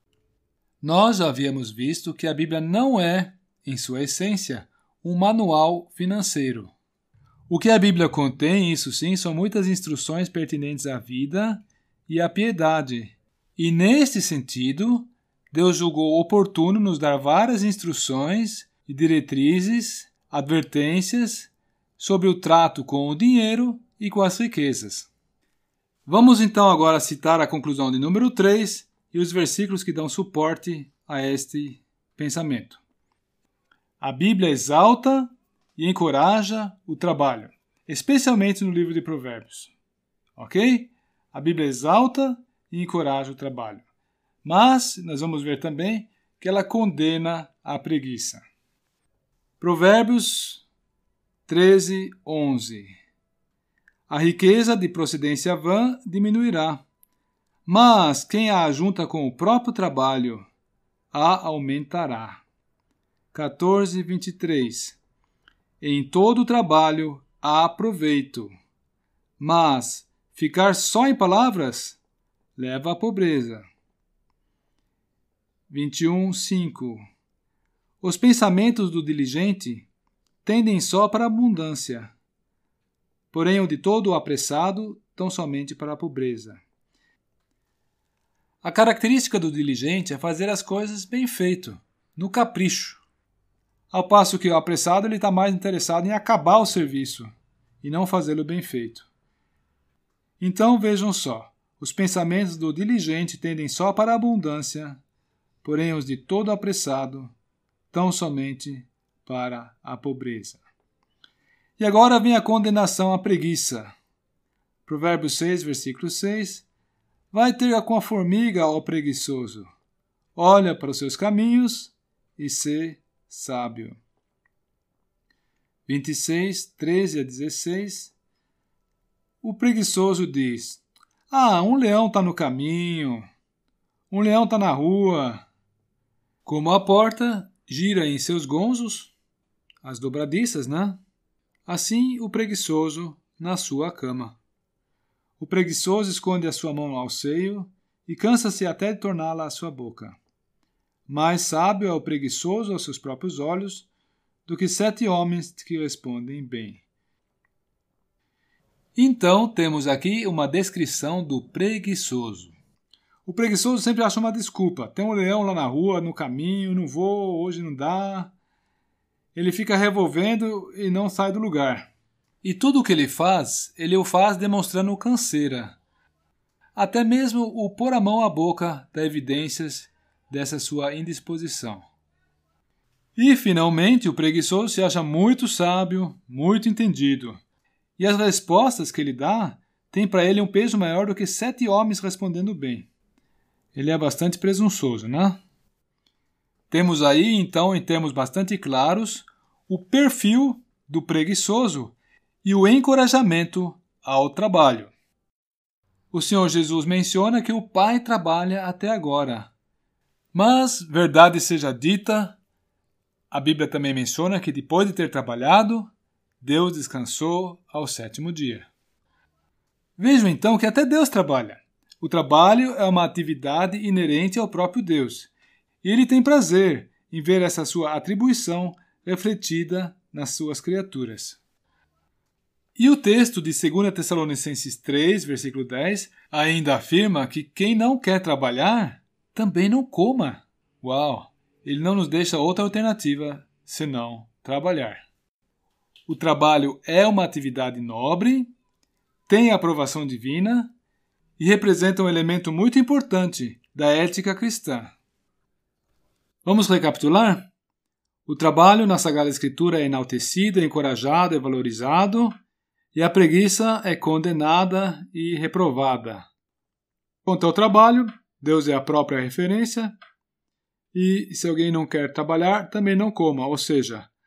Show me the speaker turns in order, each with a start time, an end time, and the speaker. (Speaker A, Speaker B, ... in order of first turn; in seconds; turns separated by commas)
Speaker A: 0.8-6.7, Speaker A: 7.5-25.1, Speaker A: 26.1-32.8, Speaker A: 34.0-39.7, Speaker A: 40.4-43.8, Speaker A: 44.4-48.4, Speaker A: 49.6-50.6, Speaker A: 51.5-53.0, Speaker A: 54.1-56.8, Speaker A: 57.6-60.5, Speaker A: 61.1-62.4, Speaker A: 63.3-65.0, Speaker A: 65.8-68.5, Speaker A: 69.4-72.0, Speaker A: 72.5-73.6, Speaker A: 75.7-77.0, Speaker A: 78.0-79.9, Speaker A: 80.4-82.1, Speaker A: 83.3-86.6, Speaker A: 88.6-93.0, Speaker A: 93.9-97.3, Speaker A: 97.8-99.1, Speaker A: 100.4-105.0, Speaker A: 105.6-107.3, Speaker A: 107.9-110.6, Speaker A: 111.8-113.9, Speaker A: 114.8-116.7, Speaker A: 117.3-119.7, Speaker A: 120.3-124.0, Speaker A: 125.9-128.1, Speaker A: 129.4-133.2, Speaker A: 134.1-135.4, Speaker A: 136.4-139.1, Speaker A: 139.8-141.0, Speaker A: 141.7-144.4, Speaker A: 145.4-150.2, Speaker A: 151.1-153.9, Speaker A: 154.4-156.8, Speaker A: 158.9-162.5, Speaker A: 163.2-168.3, Speaker A: 169.3-171.9, Speaker A: 172.4-175.8, Speaker A: 176.8-181.8, Speaker A: 183.2-187.4, Speaker A: 188.0-192.9, Speaker A: 193.7-195.4, Speaker A: 196.7-204.9, Speaker A: 206.1-209.5, Speaker A: 210.3-212.4, Speaker A: 213.3-218.7, Speaker A: 220.0-225.3, Speaker A: 225.8-231.4, Speaker A: 232.8-245.1, Speaker A: 246.1-248.5, Speaker A: 249.3-250.7, Speaker A: 251.4-254.9, Speaker A: 256.4-257.5, Speaker A: 258.2-262.3, Speaker A: 262.9-266.3, Speaker A: 267.2-269.9, Speaker A: 270.9-274.1